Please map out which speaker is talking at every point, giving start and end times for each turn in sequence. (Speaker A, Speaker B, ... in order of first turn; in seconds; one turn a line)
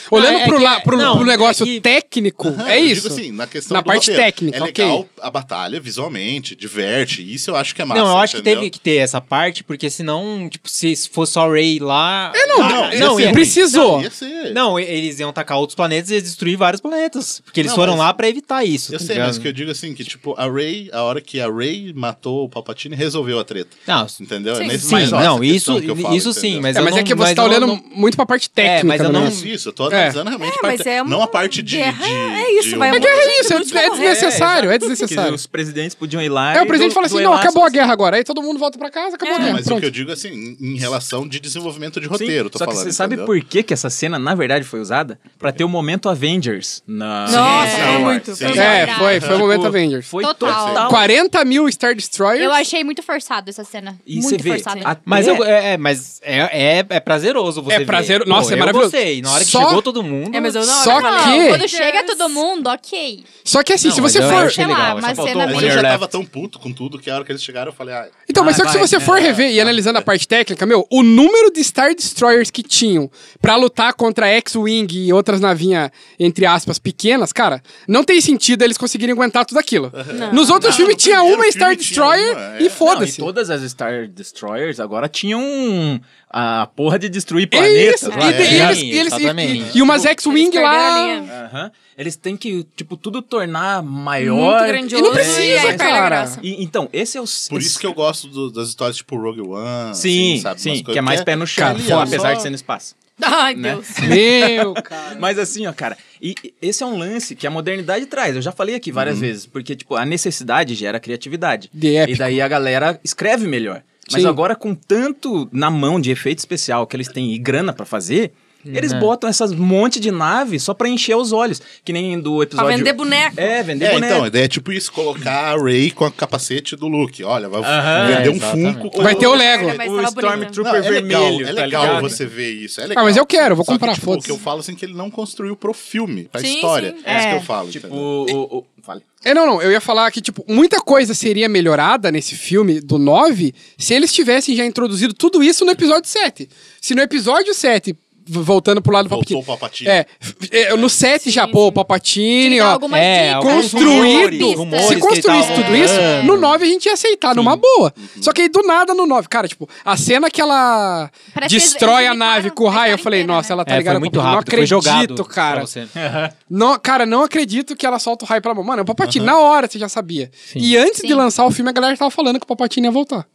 Speaker A: 0.1-5.0
Speaker B: 0.1-1.9
Speaker C: 2.4-8.7
Speaker B: 7.9-13.7
Speaker A: 12.3-14.1
Speaker C: 12.5-14.6
Speaker B: 14.5-19.5
Speaker C: 17.6-18.2
Speaker C: 18.9-26.7
Speaker B: 23.9-24.2
Speaker D: 24.5-24.9
Speaker E: 24.6-25.4
Speaker B: 24.8-27.8
Speaker A: 26.7-29.4
Speaker B: 28.6-29.5
Speaker C: 29.1-33.9
Speaker A: 29.9-30.2
Speaker D: 30.4-34.8
Speaker A: 32.9-35.4
Speaker E: 33.9-37.8
Speaker A: 36.5-39.9
Speaker D: 39.2-39.6
Speaker C: 39.4-43.3
Speaker E: 42.1-51.1
Speaker C: 47.3-49.7
Speaker D: 47.3-49.0
Speaker F: 47.6-49.4
Speaker A: 48.5-50.1
Speaker F: 50.2-51.0
Speaker C: 50.4-50.9
Speaker A: 50.9-52.6
Speaker F: 52.4-55.0
Speaker E: 54.1-55.5
Speaker D: 54.4-54.9
Speaker B: 55.0-60.9
Speaker A: 57.7-59.9
Speaker D: 60.3-62.4
Speaker A: 60.7-61.6
Speaker F: 60.9-63.3
Speaker A: 63.5-64.6
Speaker B: 63.8-65.4
Speaker E: 64.2-66.1
Speaker F: 64.3-66.0
Speaker C: 65.5-68.2
Speaker A: 68.3-83.3
Speaker E: 68.4-69.4
Speaker C: 69.1-70.1
Speaker C: 79.9-82.8
Speaker D: 80.1-80.9
Speaker E: 82.8-88.8
Speaker A: 87.5-91.3
Speaker D: 88.1-88.5
Speaker C: 88.2-88.9
Speaker B: 88.3-89.8
Speaker D: 90.0-91.3
Speaker E: 91.3-97.9
Speaker D: 94.2-96.5
Speaker A: 94.9-96.4
Speaker C: 97.5-102.5
Speaker E: 99.9-103.0
Speaker A: 101.6-102.3
Speaker D: 103.2-104.2
Speaker E: 103.5-124.3
Speaker A: 104.0-105.2
Speaker C: 108.9-109.3
Speaker A: 111.8-112.4
Speaker A: 114.1-114.4
Speaker B: 118.7-119.1
Speaker D: 122.6-123.6
Speaker C: 123.8-129.7
Speaker E: 127.6-128.3
Speaker B: 128.0-128.9
Speaker E: 128.9-132.2
Speaker A: 129.0-129.8
Speaker D: 129.2-130.6
Speaker C: 130.4-138.1
Speaker A: 132.9-134.4
Speaker D: 136.4-137.0
Speaker E: 137.1-139.0
Speaker F: 137.1-137.5
Speaker A: 139.2-165.7
Speaker C: 149.1-150.0
Speaker C: 150.7-150.9
Speaker F: 151.2-151.8
Speaker F: 152.4-156.3
Speaker B: 152.9-156.6
Speaker B: 157.3-157.6
Speaker C: 158.0-158.4
Speaker F: 161.3-163.6
Speaker B: 163.7-165.9
Speaker E: 166.0-166.3
Speaker A: 166.5-173.3
Speaker C: 169.0-169.3
Speaker F: 171.0-171.2